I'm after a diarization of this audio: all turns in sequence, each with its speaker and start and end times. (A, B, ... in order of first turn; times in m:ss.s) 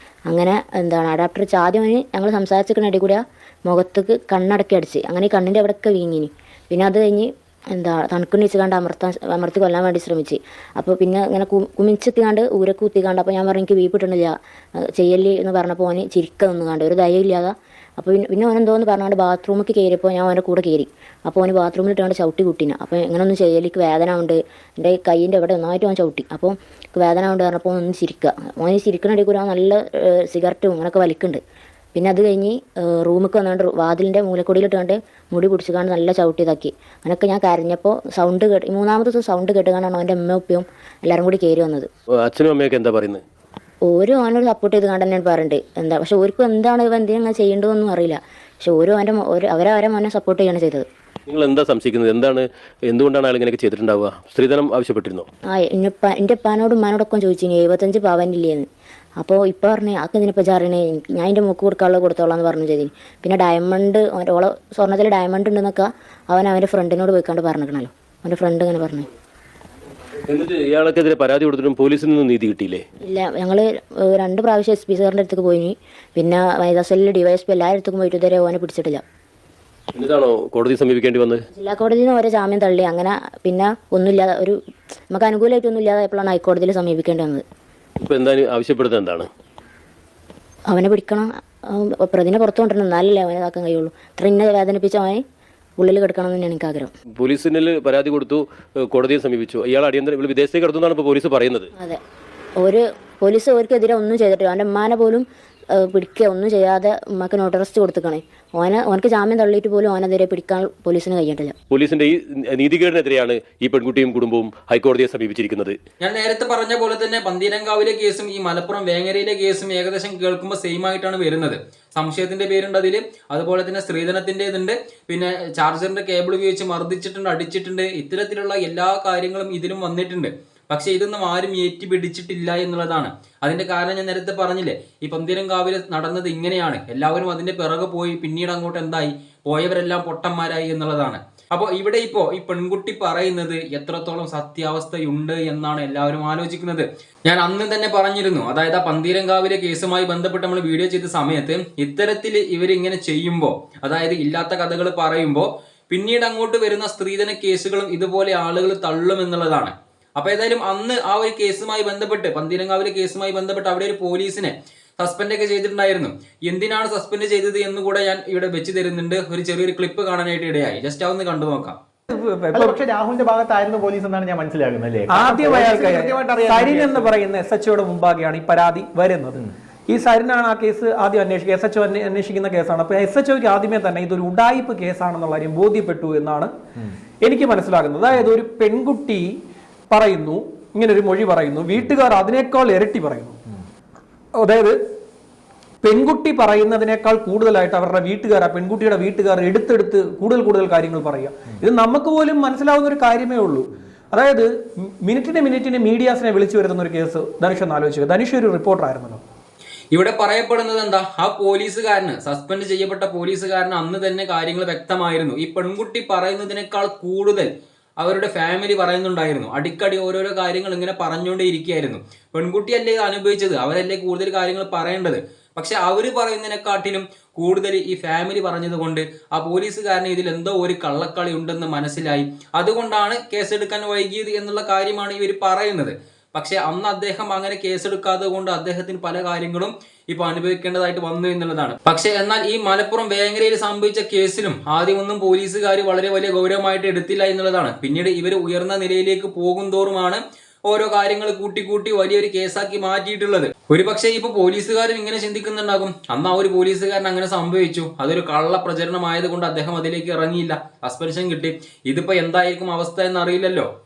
0:00.3-0:31.4 A
0:31.9-0:41.9 A
0:42.2-0:43.2 B
0:43.9-0:50.8 A
0:51.3-0:55.3 B
0:55.5-0:58.7 A
0:59.2-1:09.1 A
1:10.3-1:12.8 B
1:13.0-1:19.0 A
1:20.0-1:21.4 B
1:21.6-1:24.6 A
1:25.1-1:27.4 A
1:28.0-1:29.3 B
1:30.7-1:35.2 A
1:35.8-1:36.9 A
1:37.2-1:41.7 B
1:42.6-1:51.5 A
1:51.7-1:55.8 B
1:56.0-2:51.8 C
2:52.1-2:52.8 D
2:52.5-2:57.1 E
2:55.1-3:06.5 D
3:07.2-3:09.3 D
3:09.9-3:13.4 D
3:14.4-3:14.8 D
3:15.8-3:29.2 D
3:29.9-3:37.5 C
3:38.0-4:23.7 C